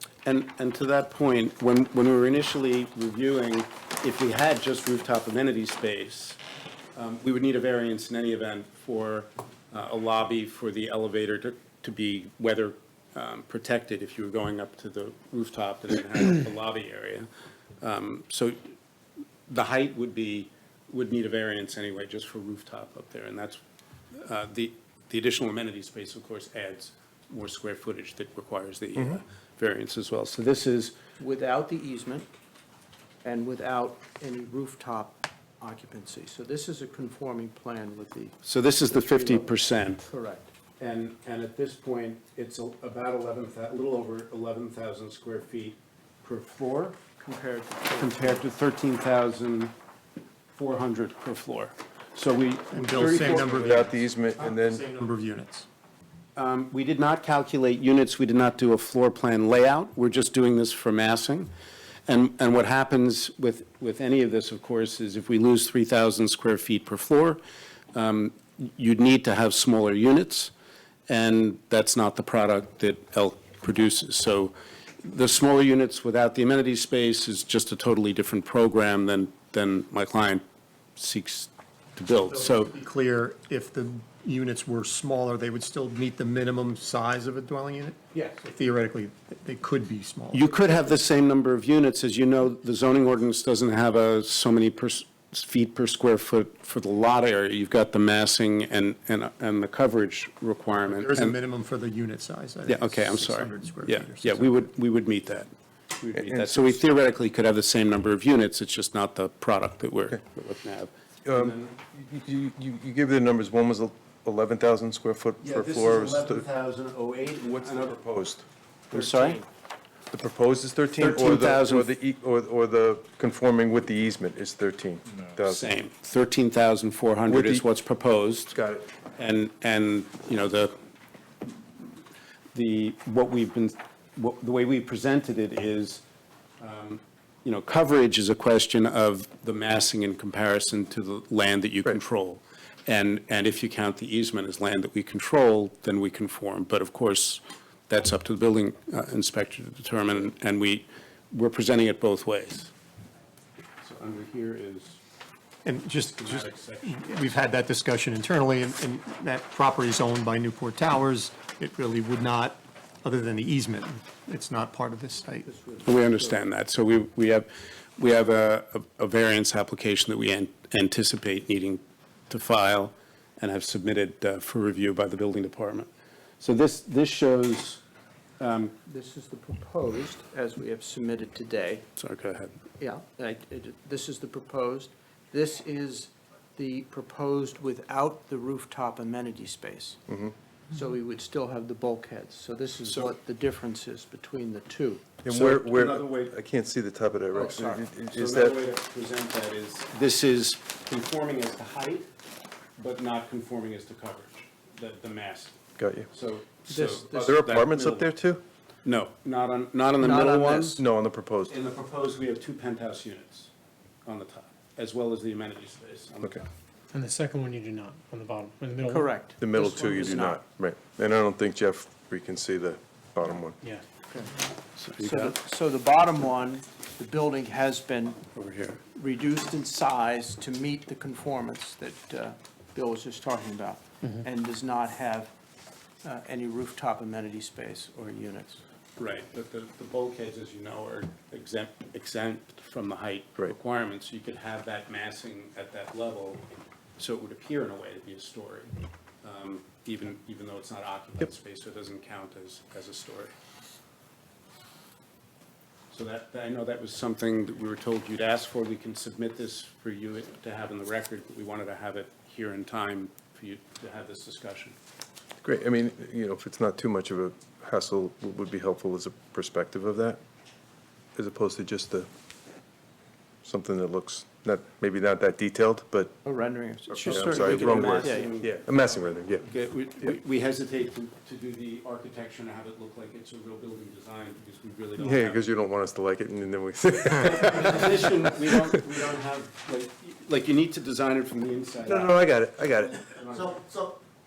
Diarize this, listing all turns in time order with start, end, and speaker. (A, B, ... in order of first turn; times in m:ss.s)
0:00.2-0:06.4 A
0:06.9-0:17.3 A
0:17.8-0:18.6 A
0:19.5-0:23.6 A
0:24.1-0:31.0 A
0:31.2-0:32.3 B
0:33.2-0:39.5 B
0:38.4-0:40.0 A
0:40.0-0:40.5 B
0:40.8-0:47.0 A
0:47.2-0:48.4 B
0:48.0-0:49.7 A
0:50.5-0:53.8 A
0:52.7-0:55.6 C
0:53.1-0:54.8 D
0:56.4-1:01.5 A
1:02.1-1:07.4 A
1:07.9-1:10.5 A
1:11.1-1:20.4 A
1:21.0-1:22.7 A
1:22.3-1:30.5 C
1:30.3-1:41.4 A
1:40.8-1:44.6 C
1:42.6-1:51.8 A
1:46.1-1:46.8 D
1:51.2-1:56.4 D
1:55.4-1:58.0 A
1:57.5-1:58.4 D
1:58.9-1:59.4 A
1:58.9-1:59.4 B
2:00.1-2:05.7 D
2:01.0-2:01.9 A
2:05.4-2:08.5 A
2:07.3-2:07.6 D
2:08.5-2:08.8 D
2:09.2-2:10.7 A
2:12.5-2:16.0 A
2:16.6-2:32.7 A
2:33.8-2:35.0 A
2:35.6-2:45.4 C
2:36.1-2:37.4 A
2:45.4-2:46.4 B
2:45.8-2:57.8 A
2:58.4-2:58.7 A
2:58.8-3:01.8 B
3:02.0-3:02.6 A
3:02.8-3:10.0 B
3:10.1-3:10.3 D
3:10.7-3:15.0 B
3:15.2-3:18.6 D
3:15.3-3:16.3 A
3:17.3-3:17.8 B
3:18.1-3:22.1 A
3:22.8-3:25.6 A
3:25.8-3:26.1 D
3:26.1-3:28.1 A
3:26.7-3:27.1 B
3:27.0-3:28.4 D
3:28.8-3:30.8 A
3:30.0-3:30.8 B
3:30.8-3:31.5 D
3:31.5-3:33.5 A
3:34.0-3:36.5 A
3:36.9-3:39.1 E
3:38.9-3:40.4 B
3:39.4-3:43.6 D
3:44.8-3:45.4 A
3:45.0-3:48.3 B
3:48.3-3:48.8 A
3:48.9-3:55.3 B
3:56.0-3:58.6 B
3:59.0-4:06.4 A
4:07.0-4:13.3 A
4:15.9-4:24.8 A
4:25.4-4:30.2 D
4:31.2-4:32.1 D
4:33.4-4:36.2 D
4:36.2-4:38.3 B
4:36.9-4:39.4 D
4:37.0-4:45.4 A
4:45.0-4:48.8 D
4:47.1-4:53.6 A
4:51.8-4:53.1 D
4:53.5-4:54.0 C